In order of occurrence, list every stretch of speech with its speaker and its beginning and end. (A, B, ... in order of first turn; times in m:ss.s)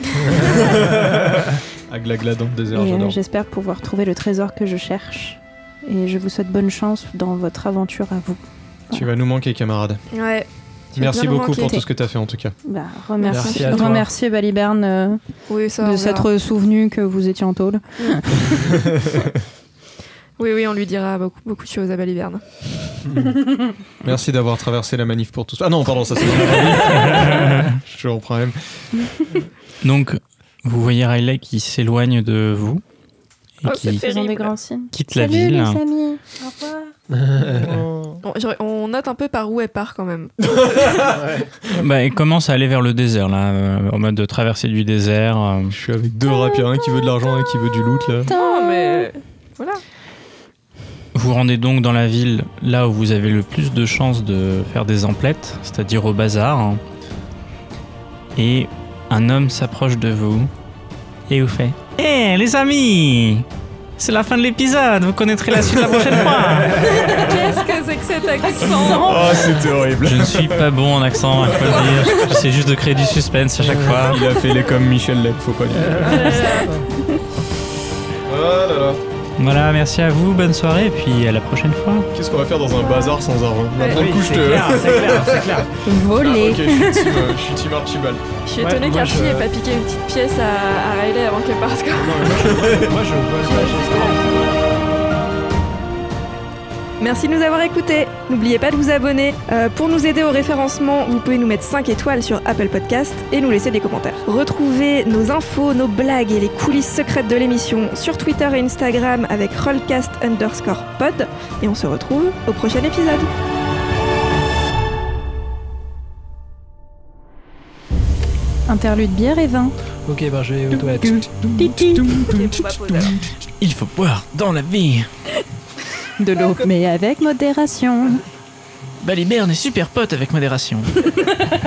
0:00.5-0:03.2 A
0:02.7-0:09.1 B
0:08.9-0:10.0 A
0:10.1-0:11.8 C
0:11.0-0:12.5 A
0:11.5-0:11.8 B
0:12.6-0:15.2 B
0:13.2-0:14.0 C
0:13.3-0:14.1 D
0:15.5-0:16.3 C
0:15.8-0:18.7 B
0:18.6-0:19.3 A
0:20.4-0:22.6 C
0:24.0-0:28.9 A
0:26.9-0:27.8 E
0:29.8-0:32.8 E
0:33.6-0:34.0 E
0:33.6-0:34.5 C
0:33.9-0:36.9 B
0:34.9-0:35.8 E
0:37.1-0:37.8 D
0:37.4-0:38.2 A
0:38.2-0:41.2 C
0:40.5-0:41.3 A
0:41.7-0:45.7 E
0:45.7-0:48.3 A
0:48.3-0:49.1 B
0:48.3-0:49.8 C
0:51.1-0:56.8 E
0:58.4-1:00.5 E
1:01.3-1:03.4 E
1:04.0-1:06.9 E
1:06.6-1:07.1 D
1:06.8-1:09.5 C
1:08.7-1:10.7 A
1:08.8-1:09.1 B
1:10.0-1:14.2 E
1:11.4-1:12.3 A
1:13.6-1:14.1 D
1:14.0-1:16.4 A
1:15.8-1:16.9 D
1:16.1-1:16.8 C
1:18.2-1:19.0 A
1:19.4-1:22.1 E
1:22.1-1:28.2 A
1:23.8-1:24.0 C
1:23.9-1:25.7 D
1:25.8-1:27.3 B
1:28.4-1:32.5 C
1:28.6-1:29.5 D
1:32.0-1:34.6 D
1:32.4-1:33.0 A
1:33.4-1:34.3 C
1:37.0-1:53.3 C
1:58.7-1:59.7 B
2:00.1-2:02.2 D
2:00.7-2:02.1 B
2:01.9-2:02.6 E
2:02.2-2:03.2 C
2:03.6-2:05.1 E
2:06.2-2:08.2 B
2:09.0-2:11.3 E